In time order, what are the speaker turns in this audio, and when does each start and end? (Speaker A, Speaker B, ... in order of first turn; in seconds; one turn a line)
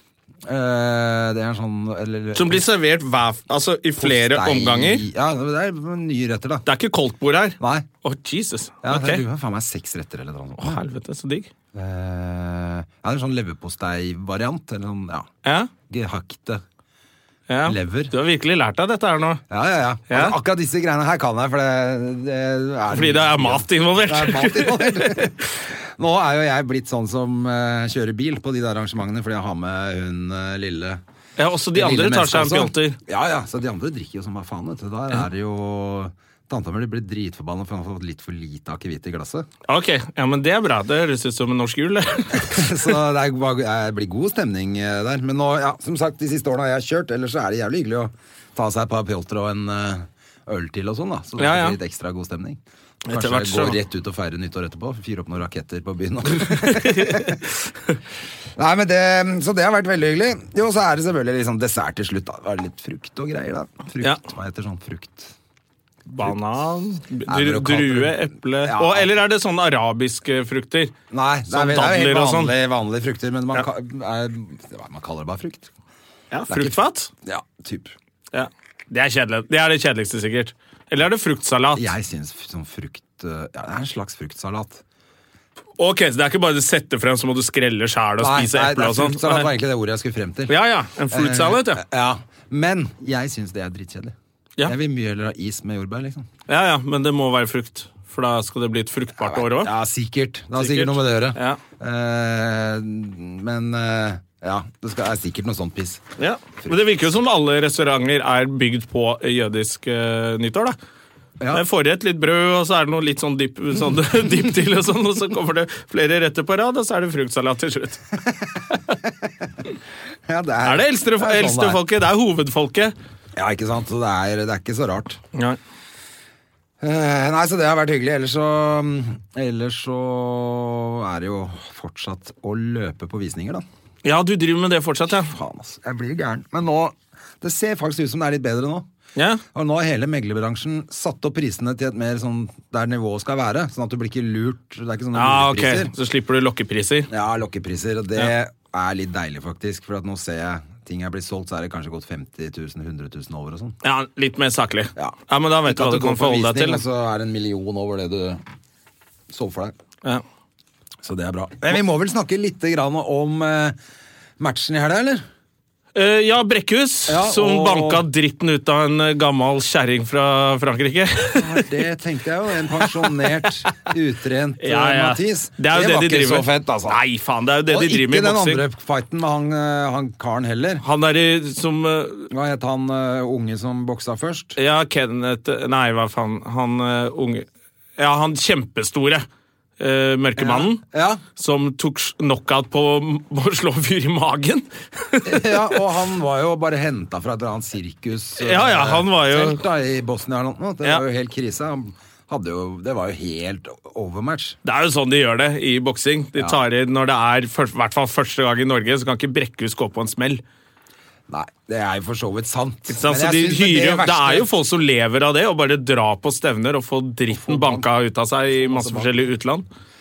Speaker A: 0.5-2.6
Speaker B: 2.3-5.0
Speaker A: 4.0-6.7
Speaker B: 6.7-9.2
Speaker A: 7.6-7.9
Speaker A: 8.8-10.8
Speaker B: 10.6-11.5
Speaker A: 11.7-15.3
Speaker B: 15.4-15.7
Speaker A: 15.9-16.6
Speaker B: 17.5-19.4
Speaker A: 17.6-18.1
Speaker A: 19.5-31.0
Speaker B: 20.1-20.4
Speaker B: 22.9-25.3
Speaker B: 31.4-33.0
Speaker A: 31.7-39.5
Speaker B: 39.7-42.8
Speaker A: 42.3-52.6
Speaker B: 51.4-51.8
Speaker B: 53.0-53.8
Speaker A: 53.1-57.4
Speaker B: 56.3-58.0
Speaker A: 58.6-65.3
Speaker B: 66.1-70.9
Speaker A: 67.3-69.1
Speaker A: 71.1-75.7
Speaker B: 71.5-72.5
Speaker B: 76.3-77.1
Speaker A: 76.5-77.9
Speaker B: 78.3-81.9
Speaker A: 81.7-84.8
Speaker B: 85.8-89.5
Speaker A: 88.2-90.5
Speaker B: 90.5-91.8
Speaker A: 91.1-96.3
Speaker B: 96.5-99.7
Speaker A: 99.2-106.0
Speaker B: 100.6-101.6
Speaker B: 106.2-110.8
Speaker B: 111.5-118.0
Speaker A: 118.2-119.5
Speaker A: 120.3-121.8
Speaker B: 120.6-122.9
Speaker A: 123.3-125.2
Speaker A: 126.8-133.6
Speaker B: 134.0-135.3
Speaker A: 135.1-138.9
Speaker B: 139.2-139.4
Speaker A: 139.5-145.9
Speaker B: 145.1-147.1
Speaker A: 147.1-153.7
Speaker B: 153.8-156.8
Speaker A: 154.9-158.4
Speaker A: 159.3-159.7
Speaker A: 161.0-163.8
Speaker A: 164.4-165.2
Speaker B: 165.9-171.7
Speaker A: 167.1-168.1
Speaker A: 171.3-177.0
Speaker B: 172.8-173.2
Speaker B: 174.6-178.6
Speaker A: 177.7-180.8
Speaker B: 180.8-182.3
Speaker A: 182.3-184.6
Speaker B: 184.6-187.4
Speaker B: 188.0-189.2
Speaker B: 189.8-190.8
Speaker A: 190.4-191.2
Speaker B: 191.3-195.8
Speaker A: 195.2-204.6
Speaker B: 198.4-199.6
Speaker B: 204.6-210.4
Speaker A: 211.3-214.5
Speaker B: 212.9-219.6
Speaker A: 217.3-217.9
Speaker A: 218.5-219.3